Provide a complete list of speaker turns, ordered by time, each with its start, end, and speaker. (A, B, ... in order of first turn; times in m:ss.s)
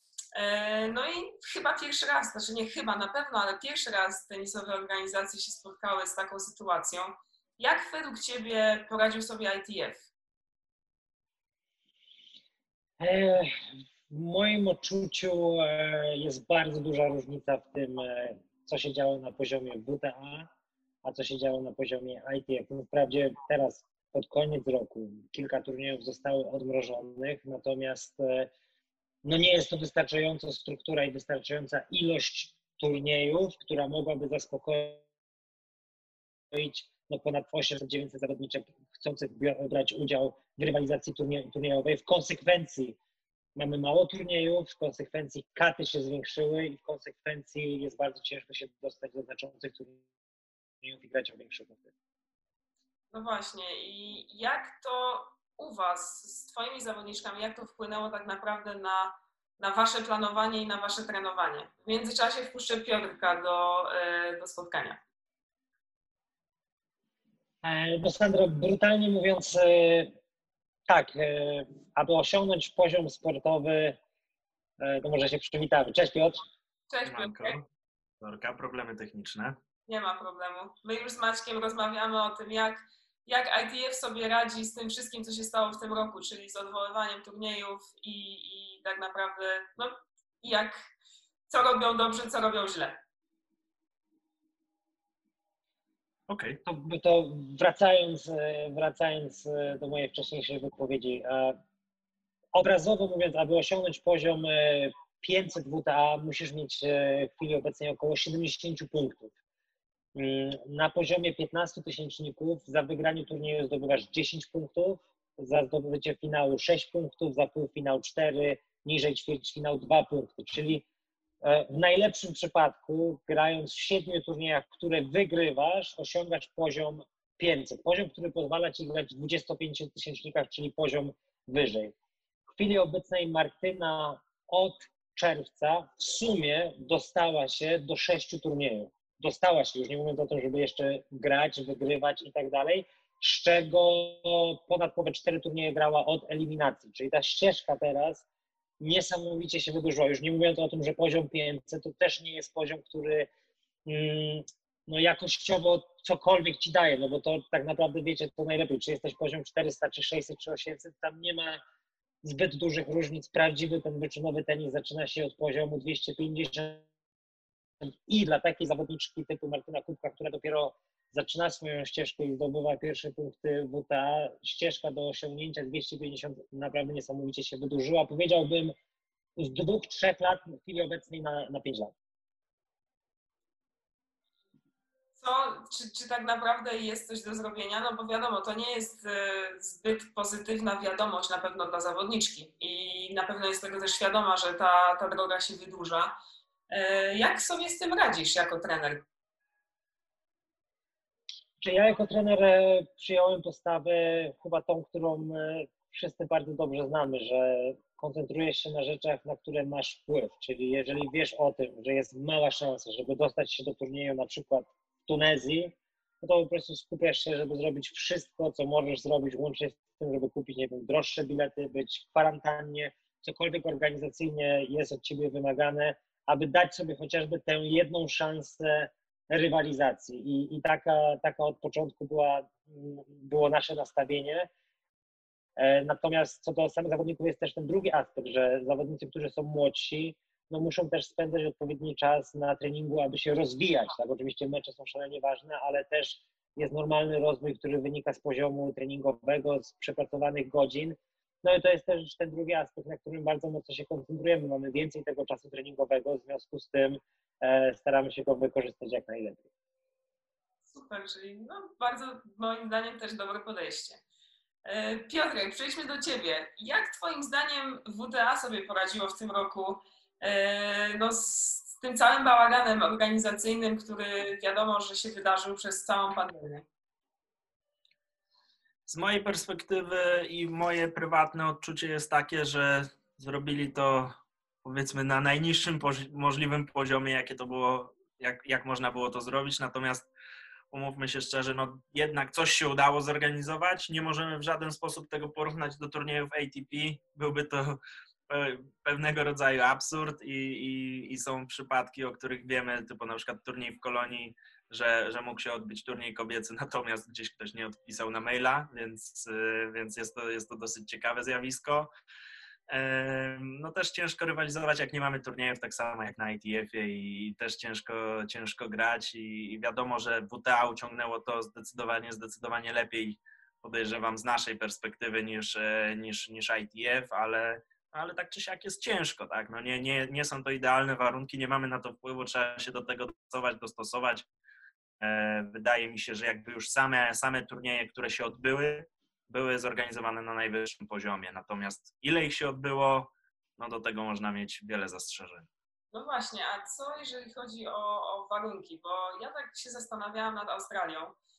0:00.3-0:10.0 A
0:13.0-0:20.5 B
0:21.0-0:28.5 B
0:29.2-0:35.0 B
0:36.5-0:43.0 B
0:43.6-0:50.0 B
0:50.8-0:51.9 B
0:53.1-1:05.0 A
1:07.6-1:10.1 B
1:10.9-1:14.0 B
1:14.8-1:16.4 B
1:16.9-1:17.6 A
1:17.0-1:17.6 C
1:18.2-1:19.6 C
1:19.9-1:30.8 A
1:31.5-1:33.0 A
1:36.3-1:36.6 C
1:36.6-1:41.6 B
1:42.5-1:49.3 B
1:50.1-2:00.8 B
2:01.4-2:11.9 B
2:12.5-2:28.2 B
2:28.8-2:33.3 B
2:33.8-2:41.6 B
2:42.2-2:46.8 B
2:47.8-2:58.7 B
2:59.4-3:01.9 B
3:05.2-3:16.1 A
3:16.7-3:19.0 A
3:21.6-3:54.5 B
3:55.6-4:19.4 B
4:20.7-4:24.0 A
4:24.6-4:36.6 A
4:38.9-4:44.1 C
4:44.6-4:50.1 C
4:50.7-5:11.9 C
5:12.7-5:34.2 C
5:35.0-5:45.5 C
5:45.9-5:51.2 A